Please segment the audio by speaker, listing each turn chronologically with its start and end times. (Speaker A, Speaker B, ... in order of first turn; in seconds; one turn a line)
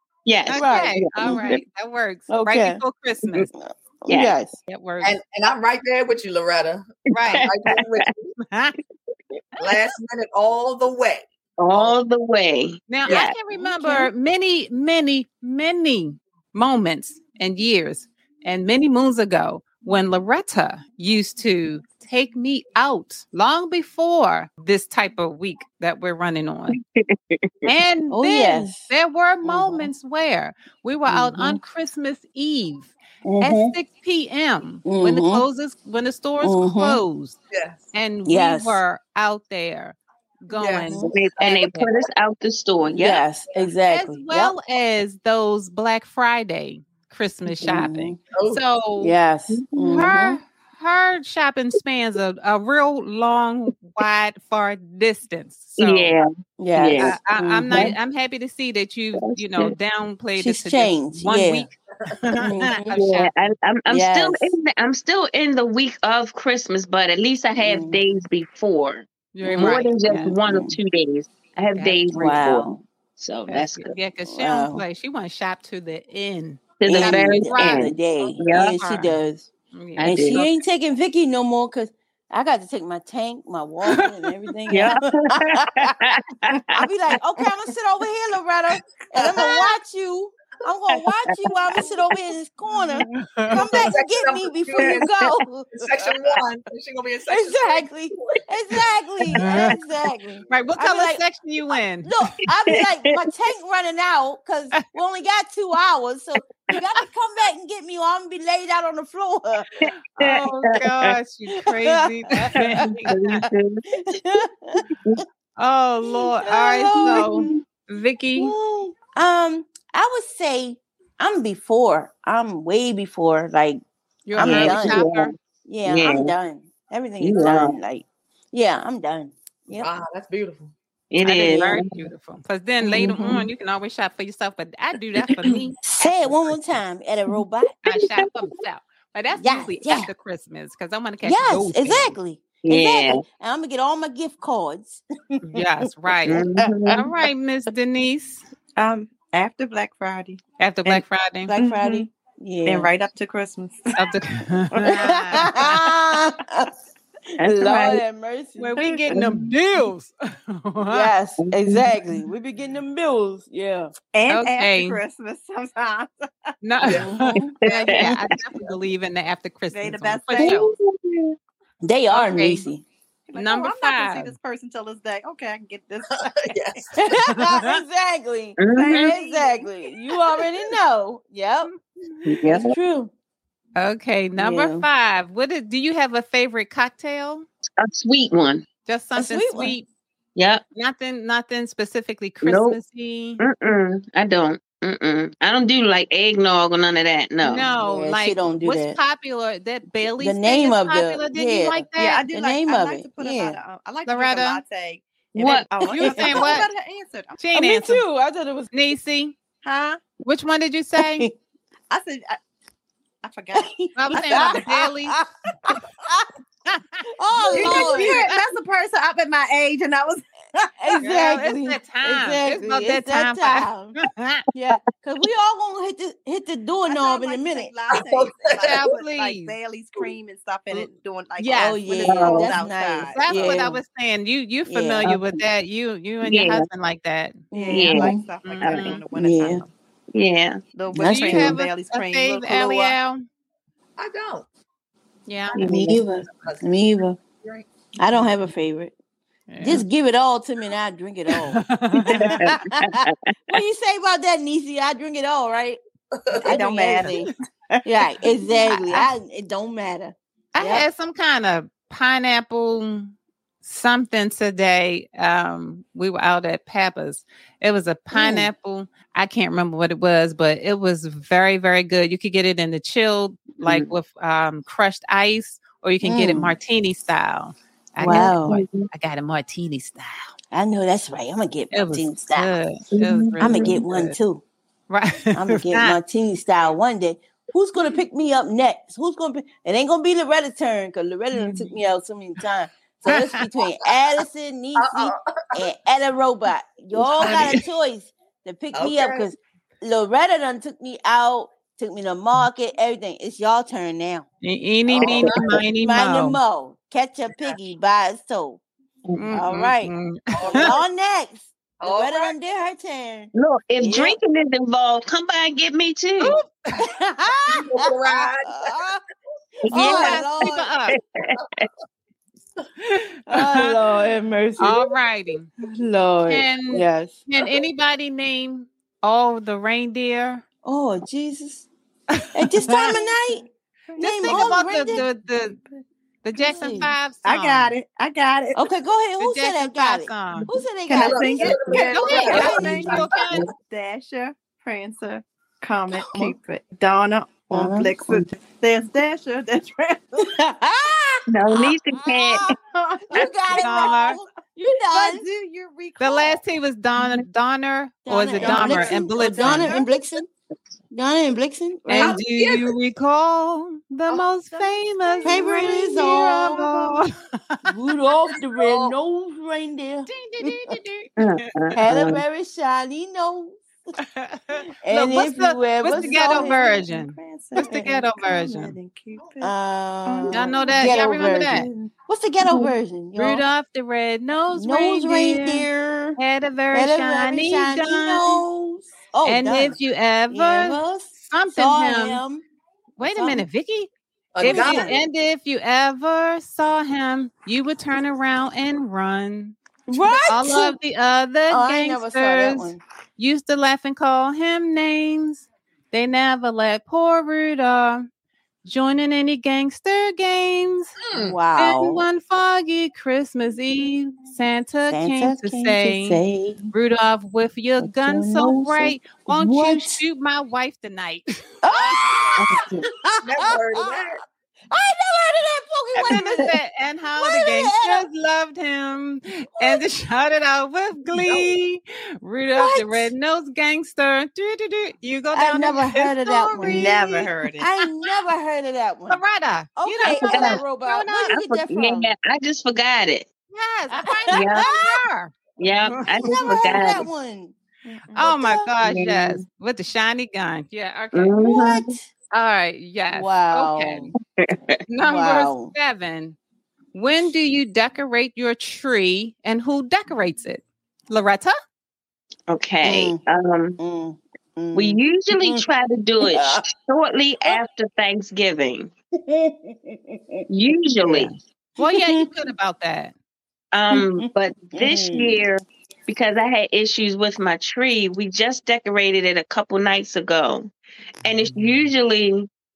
Speaker A: 0.3-1.6
Speaker B: 0.5-3.5
Speaker C: 0.5-1.6
Speaker C: 2.3-2.8
Speaker C: 3.5-4.6
Speaker A: 4.1-4.3
Speaker B: 4.7-5.2
Speaker D: 5.0-8.3
Speaker B: 7.1-7.5
Speaker A: 7.5-8.0
Speaker B: 8.5-8.8
Speaker D: 9.6-12.0
Speaker A: 11.6-13.3
Speaker B: 12.9-26.8
Speaker C: 13.5-14.1
Speaker A: 26.7-27.5
Speaker B: 27.6-37.4
Speaker C: 28.1-28.9
Speaker C: 29.4-29.9
Speaker C: 31.1-31.6
Speaker C: 33.2-33.8
Speaker C: 34.9-35.5
Speaker C: 36.4-37.0
Speaker D: 37.5-37.9
Speaker B: 37.9-41.9
Speaker C: 38.3-38.8
Speaker D: 40.5-40.9
Speaker C: 40.9-41.2
Speaker A: 41.1-43.2
Speaker C: 42.9-44.6
Speaker B: 43.9-49.1
Speaker C: 47.6-48.2
Speaker D: 48.3-48.6
Speaker C: 49.0-50.4
Speaker A: 49.5-50.1
Speaker B: 49.9-56.1
Speaker A: 55.8-57.2
Speaker C: 56.6-58.0
Speaker B: 57.0-63.3
Speaker A: 59.2-59.7
Speaker C: 60.4-61.7
Speaker C: 62.4-62.9
Speaker A: 62.9-73.9
Speaker C: 63.9-64.5
Speaker C: 67.6-68.0
Speaker B: 69.3-70.3
Speaker C: 69.5-70.8
Speaker B: 71.8-72.1
Speaker C: 72.1-72.8
Speaker B: 73.5-79.2
Speaker C: 74.3-74.8
Speaker A: 76.8-78.8
Speaker C: 76.8-86.0
Speaker B: 79.7-80.5
Speaker A: 80.0-80.5
Speaker A: 84.7-86.8
Speaker C: 86.7-96.1
Speaker B: 93.1-93.8
Speaker D: 93.5-98.4
Speaker C: 97.3-101.2
Speaker B: 99.3-99.8
Speaker B: 100.5-102.1
Speaker C: 102.0-109.7
Speaker A: 102.7-103.2
Speaker A: 109.8-111.2
Speaker B: 110.1-113.5
Speaker C: 111.6-113.2
Speaker A: 112.6-114.1
Speaker C: 114.0-115.2
Speaker B: 115.6-118.5
Speaker C: 116.1-117.6
Speaker A: 117.2-117.5
Speaker C: 118.4-123.8
Speaker B: 124.3-125.3
Speaker C: 124.3-125.1
Speaker A: 124.4-125.3
Speaker C: 125.7-129.9
Speaker A: 125.8-126.3
Speaker A: 127.2-127.7
Speaker D: 129.8-130.7
Speaker A: 131.1-132.1
Speaker B: 131.2-136.4
Speaker C: 131.4-131.8
Speaker C: 132.8-133.4
Speaker A: 133.0-133.4
Speaker C: 135.8-137.7
Speaker B: 137.8-142.2
Speaker A: 137.9-138.2
Speaker C: 139.3-140.1
Speaker C: 141.2-145.7
Speaker A: 142.7-143.2
Speaker B: 145.5-148.4
Speaker A: 146.3-147.0
Speaker C: 146.6-147.0
Speaker E: 148.8-152.1
Speaker B: 150.6-151.6
Speaker C: 151.5-152.9
Speaker E: 152.7-154.1
Speaker B: 154.0-155.9
Speaker C: 154.8-156.7
Speaker C: 157.4-159.4
Speaker A: 157.4-158.0
Speaker B: 158.6-161.1
Speaker C: 160.9-163.9
Speaker A: 161.4-161.9
Speaker E: 164.1-166.5
Speaker B: 164.3-165.0
Speaker B: 166.6-170.7
Speaker C: 166.9-168.1
Speaker A: 167.6-168.2
Speaker E: 169.7-170.8
Speaker A: 170.4-171.2
Speaker C: 171.8-172.8
Speaker B: 172.1-172.7
Speaker E: 173.3-176.8
Speaker B: 173.3-174.3
Speaker D: 176.2-177.1
Speaker C: 177.0-181.7
Speaker B: 177.3-177.8
Speaker A: 178.6-179.1
Speaker E: 178.8-179.7
Speaker A: 182.3-182.7
Speaker C: 182.4-183.1
Speaker B: 183.8-187.5
Speaker C: 184.4-184.9
Speaker A: 187.8-188.7
Speaker B: 188.9-189.9
Speaker C: 189.2-189.8
Speaker A: 190.4-190.6
Speaker B: 190.8-193.4
Speaker A: 192.4-192.8
Speaker A: 193.4-197.7
Speaker B: 197.4-202.2
Speaker C: 197.7-199.0
Speaker C: 200.2-203.6
Speaker E: 202.0-207.4
Speaker B: 204.1-204.6
Speaker A: 205.4-205.7
Speaker C: 205.8-206.6
Speaker B: 205.9-206.7
Speaker B: 207.4-208.0
Speaker C: 207.5-208.7
Speaker B: 208.7-209.4
Speaker E: 209.6-210.0
Speaker B: 210.2-211.3
Speaker C: 211.0-211.3
Speaker E: 211.9-212.4
Speaker E: 213.2-214.8
Speaker C: 213.5-216.2
Speaker B: 213.9-215.2
Speaker B: 216.7-218.4
Speaker C: 217.1-218.2
Speaker E: 217.5-221.3
Speaker C: 220.8-224.0
Speaker B: 221.0-224.4
Speaker C: 224.5-227.7
Speaker E: 226.9-233.7
Speaker D: 227.9-228.8
Speaker B: 228.6-229.6
Speaker B: 231.4-231.9
Speaker C: 231.6-233.8
Speaker A: 232.1-232.5
Speaker B: 233.1-239.0
Speaker C: 234.7-235.1
Speaker A: 235.1-235.4
Speaker A: 236.2-236.7
Speaker C: 237.5-238.3
Speaker E: 237.5-239.7
Speaker A: 237.7-239.0
Speaker C: 239.2-239.6
Speaker A: 240.2-240.6
Speaker E: 240.7-243.0
Speaker C: 240.9-241.6
Speaker B: 241.0-243.2
Speaker D: 244.0-244.5
Speaker B: 245.3-245.6
Speaker A: 245.6-246.0
Speaker C: 245.6-247.2
Speaker D: 246.3-246.7
Speaker D: 247.4-248.3
Speaker C: 248.0-248.9
Speaker B: 249.5-249.8
Speaker C: 249.6-255.8
Speaker B: 251.4-252.6
Speaker A: 252.4-253.1
Speaker D: 256.2-256.6
Speaker C: 256.4-257.3
Speaker E: 256.4-257.2
Speaker C: 257.9-260.9
Speaker B: 258.7-259.1
Speaker B: 260.6-280.3
Speaker C: 268.1-268.5
Speaker A: 273.6-273.9
Speaker C: 276.0-276.6
Speaker C: 278.0-278.6
Speaker A: 278.0-278.9
Speaker C: 280.5-282.6
Speaker B: 281.7-284.2
Speaker A: 283.0-283.8
Speaker C: 283.4-284.4
Speaker B: 284.9-286.0
Speaker C: 285.3-304.3
Speaker B: 291.4-291.7
Speaker B: 293.1-293.4
Speaker D: 294.8-295.2
Speaker D: 297.0-297.6
Speaker B: 297.2-297.6
Speaker D: 298.7-299.3
Speaker B: 304.4-306.4
Speaker D: 304.9-305.6
Speaker C: 305.8-308.6
Speaker B: 309.2-310.6
Speaker C: 309.3-309.9
Speaker D: 310.3-310.8
Speaker C: 310.5-314.2
Speaker D: 311.8-312.4
Speaker A: 313.3-316.4
Speaker B: 316.2-316.8
Speaker C: 316.8-317.9
Speaker D: 317.5-318.9
Speaker C: 318.4-319.0
Speaker C: 319.7-320.7
Speaker A: 319.7-321.7
Speaker B: 319.7-321.0
Speaker B: 322.9-323.8
Speaker C: 323.3-324.9
Speaker B: 324.6-325.5
Speaker C: 325.6-327.2
Speaker B: 326.3-330.4
Speaker C: 330.6-331.7
Speaker B: 332.2-333.0
Speaker C: 332.3-333.4
Speaker E: 333.9-335.5
Speaker C: 334.0-335.1
Speaker B: 334.0-335.6
Speaker B: 336.2-337.7
Speaker C: 336.4-336.9
Speaker E: 337.2-338.6
Speaker C: 338.6-343.1
Speaker B: 339.2-340.5
Speaker E: 340.4-350.3
Speaker D: 340.9-343.2
Speaker B: 341.9-343.5
Speaker C: 345.9-346.4
Speaker C: 347.5-348.3
Speaker C: 350.2-352.5
Speaker A: 351.3-352.5
Speaker E: 352.5-354.1
Speaker C: 353.1-355.3
Speaker B: 353.6-354.2
Speaker E: 354.9-356.4
Speaker B: 356.0-359.8
Speaker C: 358.1-360.3
Speaker D: 358.4-359.6
Speaker E: 359.5-359.8
Speaker C: 360.9-362.2
Speaker B: 361.9-367.7
Speaker D: 362.0-362.8
Speaker E: 364.5-365.9
Speaker C: 365.2-366.9
Speaker C: 367.6-370.8
Speaker D: 368.6-369.0
Speaker B: 370.1-371.5
Speaker A: 371.2-372.2
Speaker C: 371.7-373.6
Speaker B: 374.1-378.8
Speaker C: 374.8-376.9
Speaker E: 375.8-379.5
Speaker C: 377.6-377.8
Speaker C: 379.4-383.4
Speaker E: 380.1-380.9
Speaker B: 380.3-381.7
Speaker B: 383.2-388.4
Speaker C: 384.5-386.2
Speaker C: 386.7-389.8
Speaker B: 389.2-392.2
Speaker C: 390.3-392.4
Speaker B: 393.0-399.6
Speaker C: 393.0-393.5
Speaker D: 394.4-395.0
Speaker C: 394.4-395.0
Speaker C: 399.9-400.8
Speaker B: 400.3-408.1
Speaker C: 401.5-402.8
Speaker B: 408.6-410.9
Speaker D: 411.0-411.4
Speaker C: 411.1-412.0
Speaker B: 411.6-416.2
Speaker C: 414.9-416.7
Speaker B: 416.7-422.3
Speaker C: 417.8-420.0
Speaker C: 421.6-426.5
Speaker A: 422.4-422.9
Speaker D: 423.2-424.2
Speaker B: 425.9-437.3
Speaker C: 427.1-428.1
Speaker C: 429.6-429.8
Speaker D: 431.2-431.5
Speaker C: 432.6-433.1
Speaker C: 435.3-437.1
Speaker E: 436.6-437.7
Speaker C: 437.6-439.2
Speaker B: 439.1-441.3
Speaker C: 439.8-442.1
Speaker A: 440.1-440.6
Speaker A: 441.3-443.3
Speaker B: 443.5-445.4
Speaker C: 444.1-445.0
Speaker A: 444.3-444.7
Speaker A: 445.6-447.1
Speaker B: 445.9-446.3
Speaker C: 446.2-448.7
Speaker B: 448.1-451.4
Speaker A: 448.8-449.4
Speaker A: 451.1-451.9
Speaker C: 451.4-452.1
Speaker B: 452.3-454.1
Speaker C: 453.1-454.1
Speaker B: 454.9-456.4
Speaker C: 455.0-455.7
Speaker B: 456.9-461.6
Speaker A: 462.5-463.8
Speaker C: 462.8-463.2
Speaker C: 463.8-465.6
Speaker A: 464.7-468.9
Speaker C: 466.2-466.6
Speaker C: 469.2-470.5
Speaker A: 470.5-471.3
Speaker B: 471.1-473.1
Speaker C: 471.8-472.3
Speaker A: 473.7-480.7
Speaker C: 473.9-475.4
Speaker A: 481.2-482.5